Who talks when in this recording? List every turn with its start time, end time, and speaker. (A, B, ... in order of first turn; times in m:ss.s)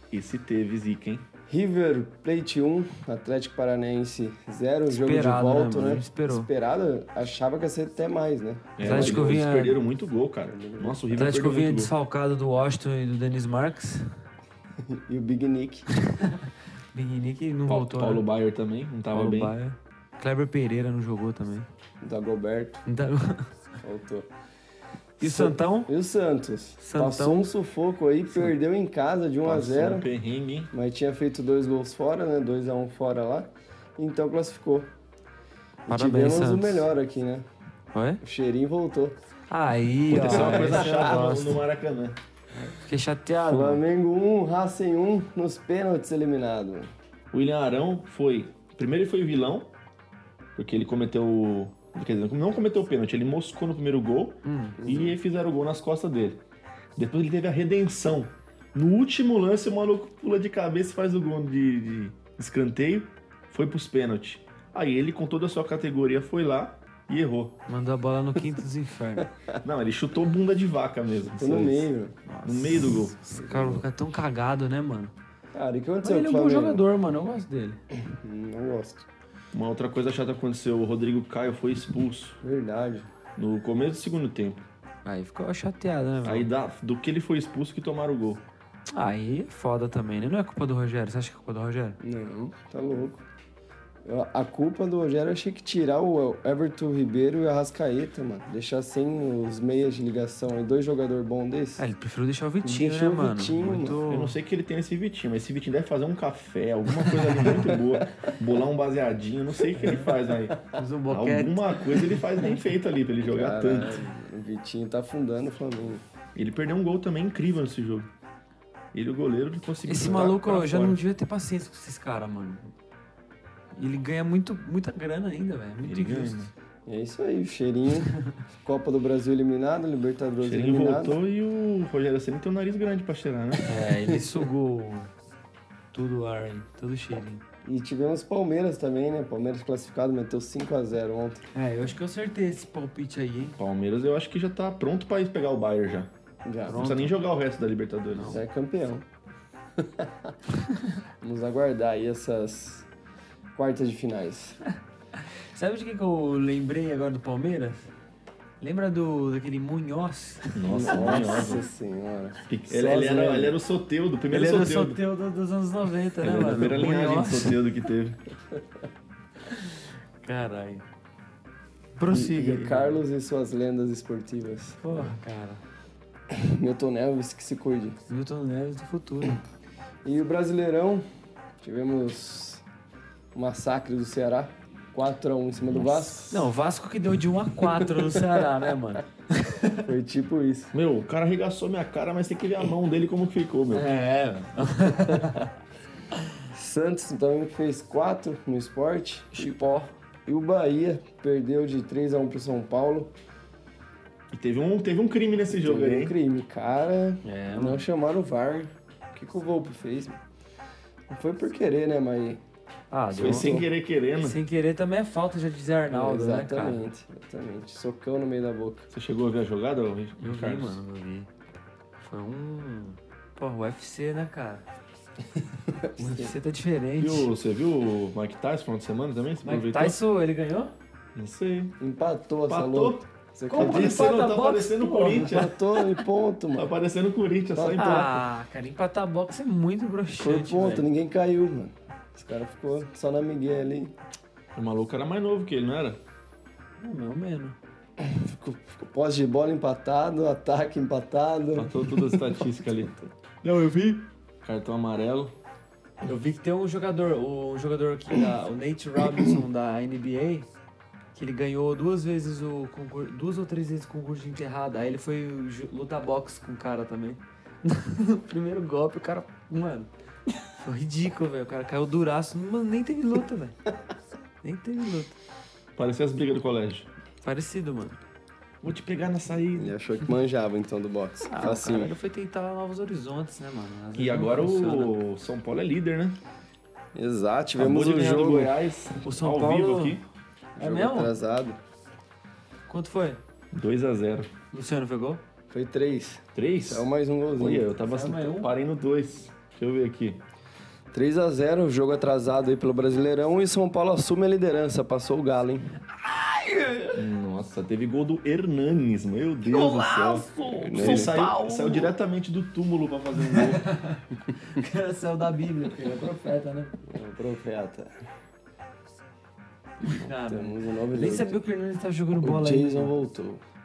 0:00.1-0:01.3 A
0:01.5-0:09.4 B
0:04.9-0:06.5 C
0:08.8-0:11.9 A
0:08.8-0:09.8 C
0:10.4-0:11.0 B
0:11.1-0:14.1 C
0:14.8-0:15.9 B
0:16.0-0:18.2 C
0:17.7-0:19.5 A
0:19.1-0:21.7 C
0:22.0-0:22.8 B
0:22.8-0:23.5 C
0:23.8-0:24.3 B
0:25.2-0:25.9 C
0:25.2-0:30.1 B
0:26.8-0:27.5 C
0:29.4-0:30.7 A
0:30.7-0:34.9 B
0:35.8-0:37.4 B
0:35.9-0:36.9 C
0:37.9-0:38.2 C
0:38.2-0:39.2 B
0:39.5-0:41.6 C
0:40.1-0:42.2 A
0:40.2-0:41.2 B
0:42.8-0:43.8 C
0:43.4-0:46.9 B
0:47.3-0:49.7 A
0:50.5-0:56.4 A
0:54.4-0:54.8 C
0:54.8-0:55.2 B
0:56.9-1:07.6 A
1:07.7-1:09.3 C
1:09.6-1:11.9 A
1:11.4-1:12.2 B
1:12.2-1:15.1 C
1:12.4-1:13.2 A
1:13.3-1:13.8 B
1:15.5-1:16.8 B
1:16.0-1:17.8 C
1:18.0-1:19.0 B
1:19.5-1:22.4 A
1:22.4-1:23.1 B
1:23.4-1:24.6 A
1:25.0-1:26.5 C
1:26.2-1:28.4 A
1:28.9-1:32.0 C
1:32.0-1:33.2 B
1:34.0-1:41.8 B
1:41.8-1:44.4 C
1:42.6-1:44.0 B
1:44.0-1:54.0 A
1:47.5-1:47.8 B
1:50.7-1:51.9 C
1:53.2-1:56.0 B
1:56.3-1:58.1 A
1:58.9-2:01.0 A
1:59.8-2:02.7 C
2:03.7-2:06.5 C
2:05.8-2:06.5 A
2:06.8-2:11.2 B
2:10.4-2:13.7 A
2:13.6-2:15.1 C
2:14.0-2:14.2 B
2:15.9-2:17.4 C
2:17.6-2:21.4 B
2:21.5-2:23.6 C
2:23.6-2:26.1 A
2:26.4-2:26.8 B
2:26.7-2:27.2 C
2:26.7-2:28.4 A
2:28.1-2:28.4 C
2:28.3-2:29.0 B
2:29.8-2:30.3 B
2:31.2-2:32.8 B
2:33.5-2:34.6 B
2:35.2-2:37.9 C
2:38.6-2:41.6 C
2:40.5-2:41.6 A
2:40.6-2:43.6 B
2:42.5-2:45.0 A
2:44.3-2:47.6 C
2:46.2-2:48.2 A
2:49.5-2:50.8 C
2:52.0-2:53.0 C
2:52.1-2:54.8 B
2:54.8-2:55.6 C
2:56.3-2:58.0 B
2:58.1-2:59.4 C
3:00.0-3:01.0 B
3:01.6-3:02.6 B
3:03.3-3:06.3 B
3:05.7-3:06.4 A
3:06.3-3:09.8 C
3:07.6-3:08.5 B
3:09.8-3:10.7 B
3:10.7-3:13.9 A
3:13.7-3:15.5 C
3:16.5-3:23.1 B
3:19.3-3:19.9 C
3:24.3-3:26.1 A
3:25.5-3:30.2 B
3:27.2-3:27.8 C
3:31.1-3:32.4 B
3:32.9-3:33.6 C
3:33.1-3:34.4 A
3:33.2-3:33.6 B
3:34.2-3:36.8 C
3:35.9-3:38.9 B
3:38.9-3:40.8 A
3:40.2-3:41.3 C
3:42.0-3:44.6 C
3:45.7-3:46.3 B
3:46.0-3:47.3 C
3:47.0-3:50.0 A
3:49.4-3:50.7 C
3:51.1-3:51.8 A
3:51.8-3:54.2 B
3:52.5-3:55.5 A
3:53.5-3:55.8 C
3:55.1-3:56.7 B
3:56.5-3:58.2 A
3:57.5-3:58.2 B
3:57.7-4:00.8 C
4:00.2-4:03.9 B
4:04.5-4:06.0 A
4:06.8-4:07.6 C
4:08.0-4:12.6 B
4:11.5-4:13.0 A
4:13.4-4:14.0 C
4:14.4-4:15.3 A
4:16.0-4:20.5 C
4:21.1-4:29.9 C
4:30.5-4:33.6 C
4:34.4-4:35.2 C
4:35.8-4:36.9 A
4:37.2-4:38.0 C
4:38.6-4:39.7 A
4:39.5-4:41.9 B
4:41.3-4:45.0 C
4:44.0-4:46.2 A
4:46.9-4:48.5 B
4:47.6-4:50.0 A
4:49.0-4:50.0 C
4:50.6-4:51.1 C
4:50.6-4:51.6 B
4:52.7-4:53.2 C
4:53.5-4:54.3 A
4:54.5-4:55.2 C
4:55.5-4:57.7 B
4:56.3-5:00.2 A
4:57.8-4:58.5 C
5:00.9-5:05.7 B
5:06.0-5:07.0 C
5:06.9-5:13.6 A
5:09.4-5:11.9 C
5:10.6-5:11.2 B
5:13.2-5:16.8 C
5:16.9-5:17.9 B
5:19.8-5:22.9 C
5:19.9-5:21.3 B
5:22.2-5:23.4 B